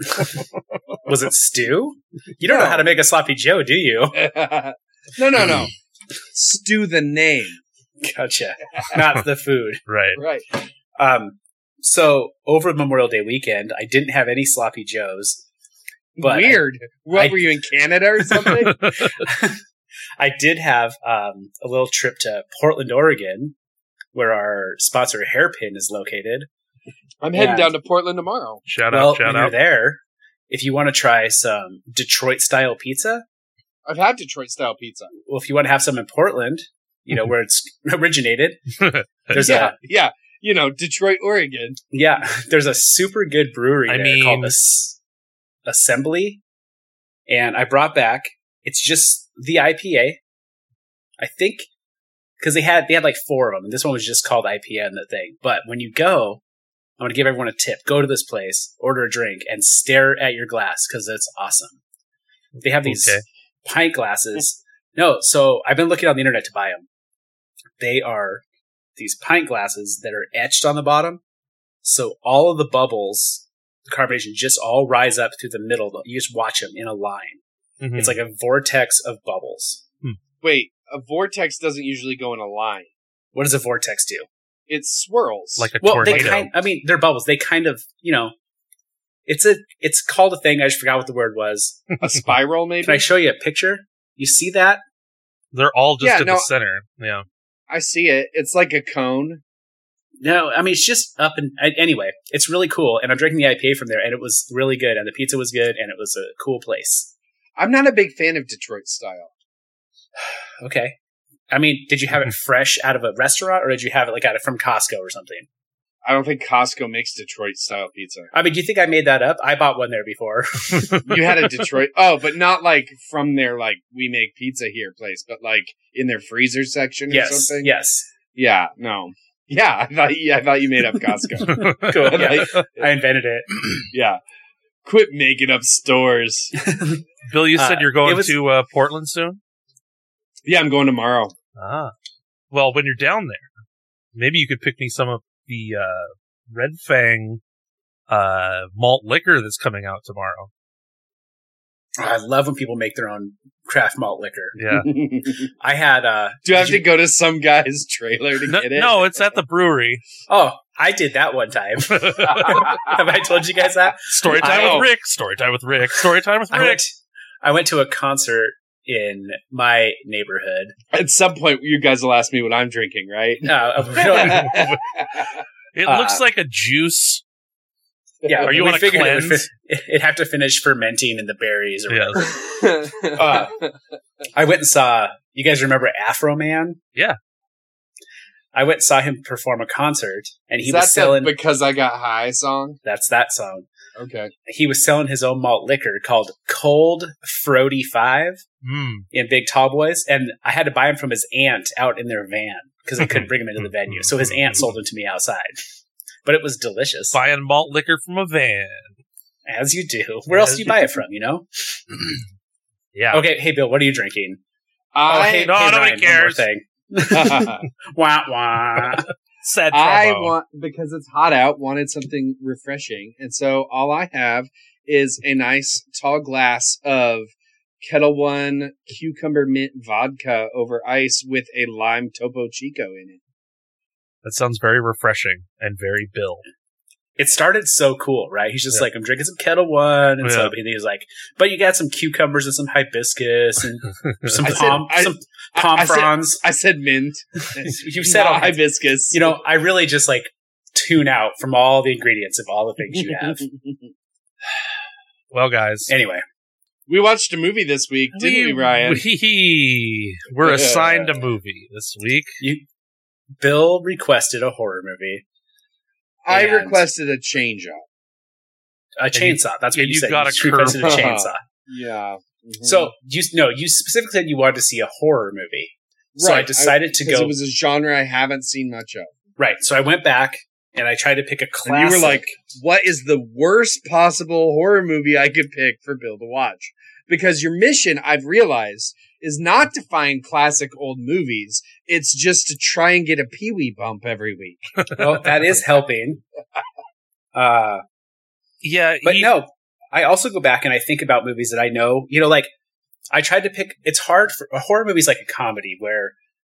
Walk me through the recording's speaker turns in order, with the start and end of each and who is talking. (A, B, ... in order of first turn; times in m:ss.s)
0:01.0-0:04.3 A
0:02.4-0:02.9 B
0:04.1-0:05.7 B
0:06.3-0:07.6 B
0:08.0-0:09.8 A
0:09.9-0:10.2 C
0:10.2-0:10.5 B
0:11.0-0:15.4 A
0:16.2-0:18.8 B
0:16.2-0:17.5 A
0:18.3-0:19.2 C
0:19.0-0:19.6 A
0:20.2-0:23.6 A
0:24.1-0:26.5 A
0:27.2-0:28.6 B
0:27.3-0:27.7 A
0:28.7-0:29.5 C
0:28.9-0:33.2 A
0:33.8-0:35.1 B
0:35.3-0:38.6 A
0:38.8-0:39.7 C
0:39.3-0:39.7 A
0:39.4-0:41.8 B
0:41.9-0:45.0 A
0:43.9-0:44.5 C
0:45.6-0:46.4 A
0:47.3-0:50.2 A
0:51.2-0:51.7 A
0:52.4-0:56.4 A
0:57.0-1:01.8 A
1:02.6-1:03.2 C
1:02.6-1:06.9 A
1:07.8-1:08.4 A
1:09.0-1:11.2 A
1:11.8-1:17.4 A
1:17.8-1:18.2 C
1:17.9-1:19.8 A
1:20.4-1:22.9 B
1:23.3-1:24.3 A
1:24.7-1:26.3 B
1:25.6-1:26.5 C
1:25.8-1:28.3 A
1:29.3-1:31.8 A
1:32.0-1:33.0 B
1:32.8-1:34.8 A
1:35.5-1:37.2 C
1:36.0-1:36.5 B
1:37.7-1:39.4 B
1:40.2-1:47.1 A
1:47.6-1:49.3 B
1:50.6-1:51.0 A
1:51.5-1:55.5 A
1:56.0-1:58.3 B
1:58.3-2:01.2 A
2:00.7-2:01.0 C
2:01.0-2:07.7 B
2:07.1-2:08.1 A
2:08.3-2:12.9 B
2:11.4-2:12.6 C
2:11.5-2:13.8 A
2:13.9-2:14.2 B
2:14.8-2:16.5 B
2:16.5-2:18.4 A
2:17.3-2:19.4 C
2:20.4-2:21.3 B
2:21.6-2:21.9 C
2:22.5-2:23.5 C
2:24.1-2:27.4 C
2:28.1-2:30.5 C
2:32.0-2:34.6 A
2:34.6-2:34.9 C
2:34.7-2:35.5 B
2:35.5-2:36.8 A
2:36.4-2:39.3 B
2:38.5-2:40.0 C
2:40.3-2:44.9 A
2:41.9-2:42.6 C
2:42.4-2:43.0 B
2:44.1-2:46.8 C
2:44.3-2:44.9 B
2:46.5-2:46.9 A
2:47.4-2:50.7 A
2:50.9-2:55.3 B
2:53.4-2:54.7 A
2:54.5-2:54.8 C
2:55.7-2:57.2 C
2:55.8-2:56.2 A
2:58.2-2:58.5 B
2:58.2-3:02.4 A
2:58.4-2:59.5 C
3:01.9-3:02.3 C
3:02.2-3:03.8 B
3:03.2-3:03.5 A
3:04.3-3:06.8 A
3:08.5-3:11.3 A
3:10.6-3:12.8 B
3:12.8-3:13.7 A
3:14.0-3:14.3 B
3:14.5-3:18.4 A
3:18.6-3:19.0 C
3:19.1-3:25.6 A
3:23.0-3:24.7 C
3:26.2-3:27.2 A
3:27.1-3:28.9 C
3:29.4-3:32.1 A
3:30.3-3:30.8 C
3:32.9-3:33.2 C
3:33.1-3:34.4 A
3:34.9-3:35.5 B
3:35.0-3:39.0 A
3:35.4-3:36.4 C
3:37.1-3:37.7 B
3:38.9-3:40.4 C
3:39.7-3:53.2 B
3:54.2-3:56.4 C
3:57.2-4:06.4 A
4:00.2-4:00.5 C
4:04.0-4:04.5 C
4:04.4-4:09.4 B
4:07.6-4:08.6 A
4:09.1-4:13.4 A
4:13.0-4:13.8 B
4:15.3-4:15.9 C
4:15.9-4:16.2 A
4:16.9-4:19.0 B
4:18.1-4:22.4 C
4:20.4-4:21.2 B
4:22.4-4:22.6 A
4:23.4-4:25.2 A
4:26.2-4:27.8 B
4:26.3-4:26.8 A
4:29.0-4:31.4 A
4:29.1-4:31.1 C
4:30.7-4:32.9 B
4:32.6-4:37.4 A
4:36.2-4:39.1 B
4:39.4-4:42.2 A
4:41.6-4:54.8 B
4:55.0-4:56.2 A
4:57.3-4:57.8 A
4:58.6-4:59.3 C
4:59.0-5:02.5 A
5:03.1-5:06.1 A